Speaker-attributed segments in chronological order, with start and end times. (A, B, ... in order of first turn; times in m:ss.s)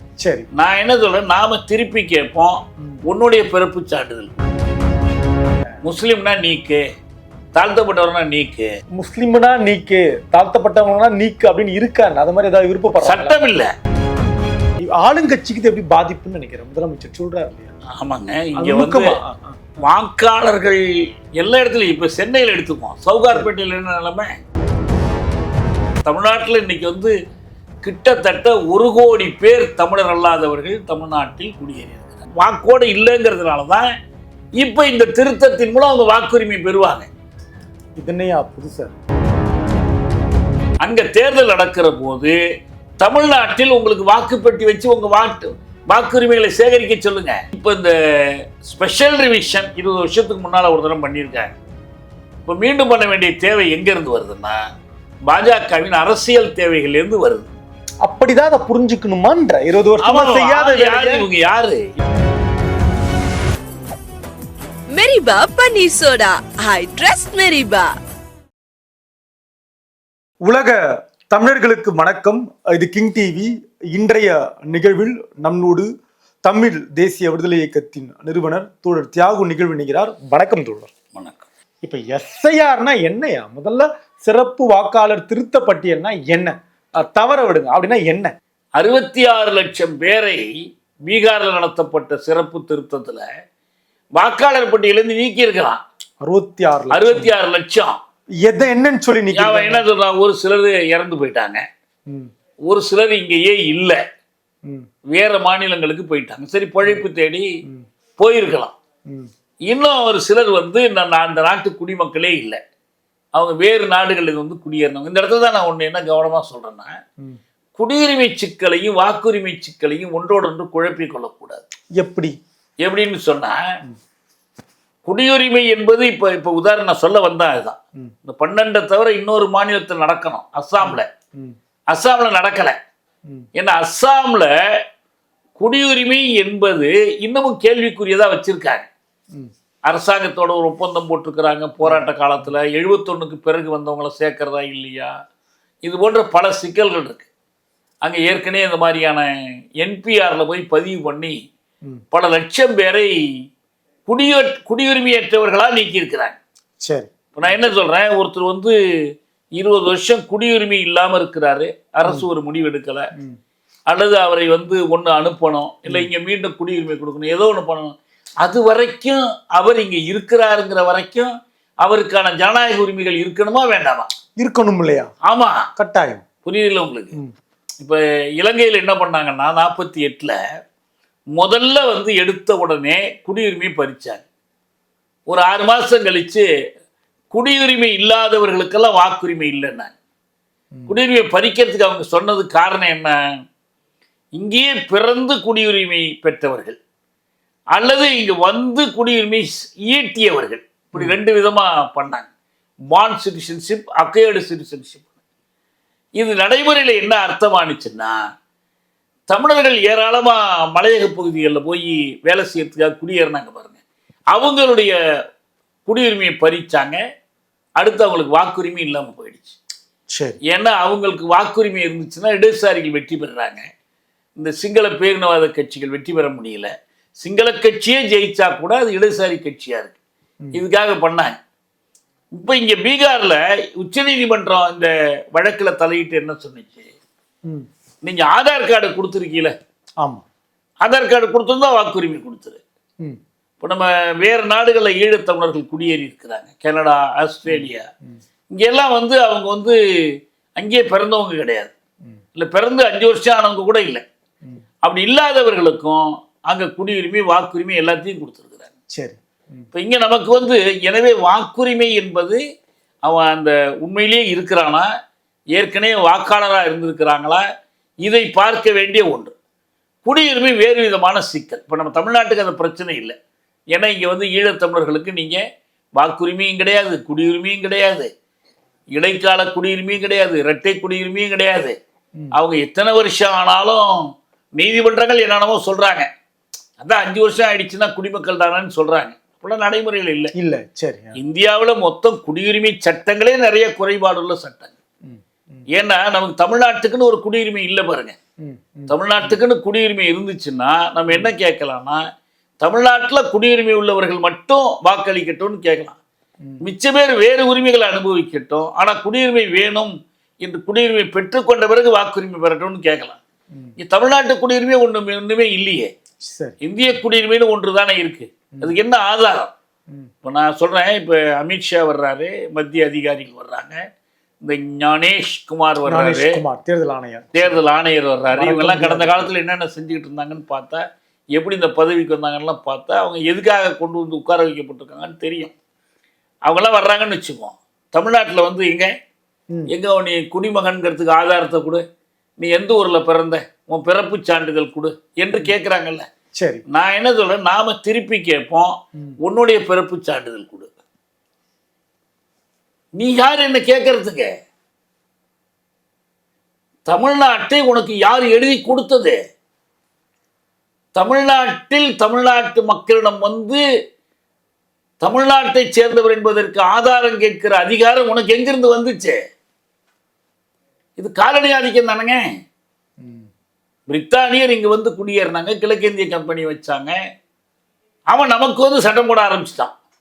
0:00.2-0:00.5 A
0:00.6-0:04.3 B
0:05.8-0:06.8 B
0:07.6-0:08.7 B
0:09.0-0:13.4 A
0:13.0-0:13.7 B
0:14.9-0:17.7 A
0:18.0-0:19.2 B
0:18.6-0:19.7 A
0:19.8-0:20.8 B
0:21.4-0:24.3 B
0:26.0-0:27.2 B
0:27.8-0:33.9 B
0:34.6-0:37.1 B
0:38.0-0:38.9 A
0:40.8-0:42.4 B
0:43.0-0:51.5 B
0:52.5-0:54.6 B
0:55.3-0:57.5 B
0:58.0-1:01.2 A
1:00.0-1:01.8 B
1:04.9-1:08.0 C
1:10.4-1:15.9 A
1:16.4-1:20.9 A
1:21.2-1:21.5 B
1:21.8-1:28.3 A
1:28.8-1:30.5 B
1:31.1-1:33.2 B
1:34.2-1:35.8 B
1:36.2-1:37.3 A
1:36.9-1:38.0 B
1:38.4-1:39.8 A
1:39.3-1:41.6 B
1:42.7-1:44.0 B
1:45.1-1:47.5 B
1:48.2-1:48.7 B
1:49.7-1:52.6 B
1:53.4-1:57.0 B
1:57.8-2:01.6 B
2:02.0-2:02.3 A
2:02.8-2:03.6 B
2:05.0-2:11.1 B
2:10.8-2:11.6 A
2:11.9-2:12.8 B
2:13.6-2:14.5 B
2:15.6-2:18.9 B
2:19.9-2:25.1 B
2:25.8-2:27.3 B
2:28.0-2:29.3 B
2:29.8-2:31.4 B
2:32.1-2:33.1 B
2:34.1-2:36.4 B
2:36.8-2:37.7 A
2:37.3-2:38.8 B
2:39.6-2:43.1 B
2:43.9-2:51.3 B
2:51.8-2:54.1 B
2:54.4-2:55.1 A
2:55.2-2:55.6 B
2:55.8-2:56.2 A
2:56.4-2:57.2 B
2:57.8-3:00.4 B
3:01.3-3:04.2 B
3:05.3-3:06.4 B
3:07.3-3:09.9 B
3:10.9-3:13.2 B
3:14.4-3:16.8 B
3:17.8-3:22.3 B
3:22.9-3:25.1 B
3:26.2-3:28.2 B
3:29.3-3:33.8 B
3:34.3-3:34.9 B
3:35.9-3:37.0 B
3:37.8-3:39.6 B
3:40.5-3:43.7 B
3:44.4-3:46.7 B
3:47.2-3:50.0 B
3:50.5-3:51.4 B
3:52.4-3:56.9 B
3:58.0-3:59.5 B
4:00.8-4:02.6 B
4:03.6-4:07.8 B
4:07.5-4:08.2 A
4:08.5-4:09.8 B
4:10.6-4:11.7 B
4:12.4-4:14.0 B
4:14.8-4:18.7 B
4:19.0-4:19.7 A
4:19.7-4:22.4 B
4:23.0-4:24.9 B
4:25.5-4:27.4 B
4:28.0-4:29.3 B
4:30.0-4:33.2 B
4:33.7-4:35.4 B
4:36.0-4:38.1 B
4:38.9-4:41.7 B
4:42.3-4:43.9 B
4:44.6-4:46.1 B
4:46.8-4:50.3 B
4:50.4-4:51.2 A
4:51.2-4:54.8 B
4:55.0-4:55.6 A
4:55.7-4:58.2 B
4:58.4-4:59.4 A
4:58.9-5:02.0 B
5:02.6-5:06.0 B
5:06.6-5:13.2 B
5:13.8-5:15.9 B
5:16.3-5:16.6 A
5:16.6-5:19.5 B
5:20.2-5:23.8 B
5:24.4-5:26.4 B
5:25.9-5:27.6 A
5:27.4-5:30.8 B
5:28.3-5:29.3 A
5:31.4-5:35.5 B
5:36.5-5:38.9 B
5:39.7-5:41.8 B
5:42.4-5:46.0 B
5:46.4-5:46.6 A
5:46.7-5:50.7 B
5:53.0-5:54.3 B
5:56.9-5:59.2 B
6:01.0-6:03.6 B
6:05.0-6:09.2 B
6:11.0-6:12.2 B
6:13.0-6:13.3 A
6:13.9-6:17.0 B
6:18.1-6:19.7 B